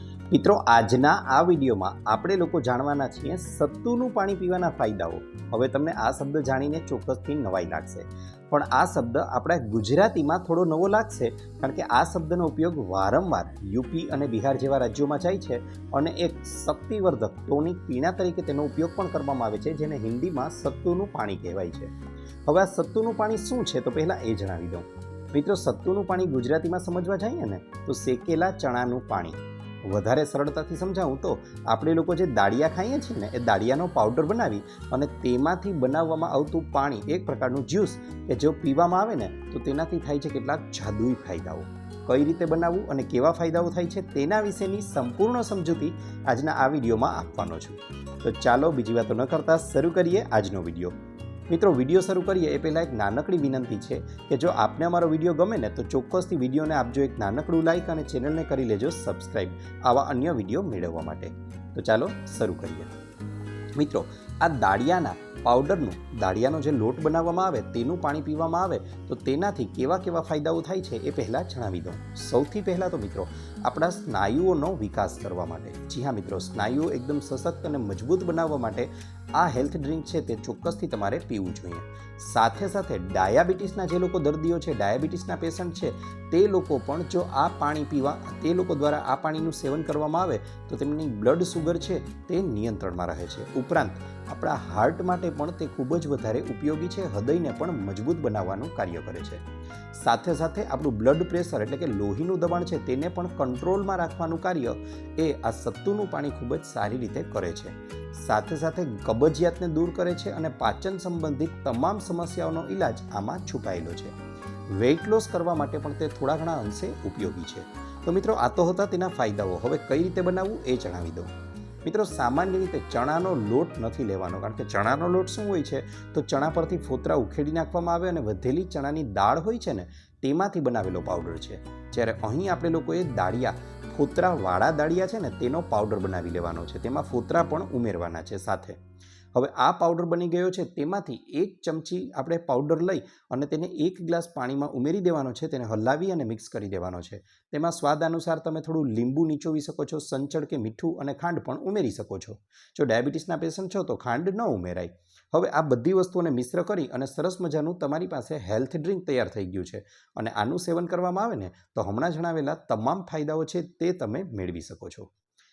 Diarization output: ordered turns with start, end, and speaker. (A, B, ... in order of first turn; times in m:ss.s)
0:00.3-0:21.9 A
0:22.5-0:51.0 A
0:51.5-1:02.9 A
1:03.8-1:54.2 A
1:54.7-2:01.3 A
2:01.8-2:18.8 A
2:19.3-2:45.1 A